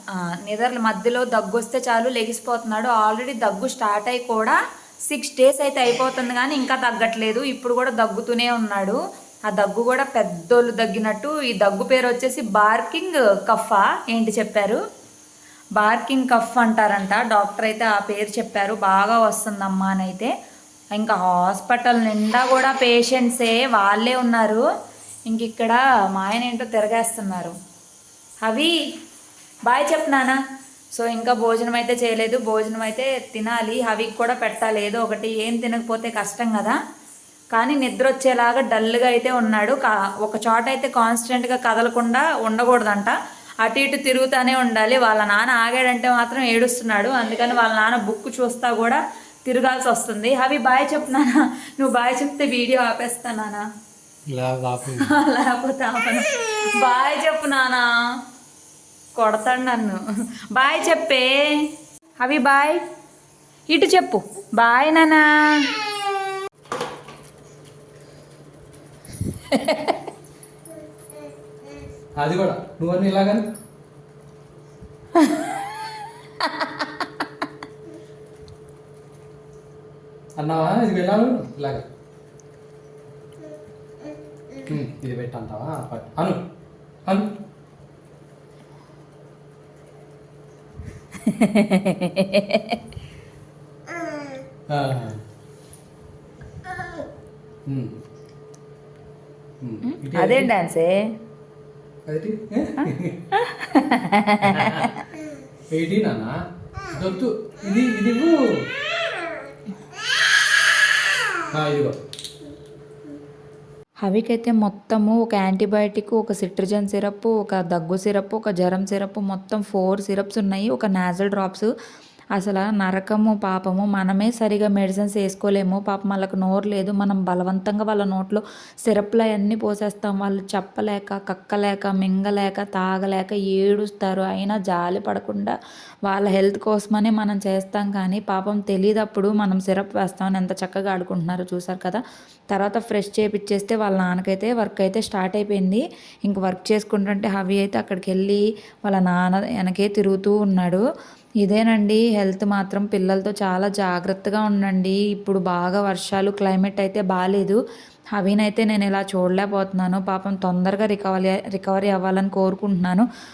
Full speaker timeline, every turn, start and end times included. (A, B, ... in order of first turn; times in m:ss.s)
0:00.4-0:09.0 A
0:09.5-0:14.8 A
0:15.8-0:20.3 A
0:21.0-0:24.6 A
0:25.3-0:27.5 A
0:28.4-0:28.7 A
0:29.7-0:30.4 A
0:31.0-0:36.7 A
0:37.5-0:53.6 A
0:54.3-0:55.1 B
0:55.2-0:57.8 A
0:56.9-0:57.1 C
0:59.2-1:00.0 A
1:00.5-1:01.7 A
1:02.2-1:02.8 A
1:03.7-1:05.7 A
1:12.2-1:13.4 B
1:20.4-1:21.8 B
1:24.7-1:26.4 B
1:31.3-1:32.8 A
1:34.7-1:35.2 B
1:37.6-1:37.9 B
1:39.6-1:40.5 B
1:39.9-1:41.0 A
1:42.1-1:43.1 B
1:43.5-1:44.7 A
1:44.4-1:44.9 B
1:45.7-1:46.3 B
1:46.9-1:48.3 B
1:51.5-1:52.0 B
1:54.0-2:01.7 C
2:02.4-2:15.5 C
2:16.1-2:22.0 C
2:22.5-2:30.8 C
2:31.4-2:37.6 C
2:38.2-2:43.0 C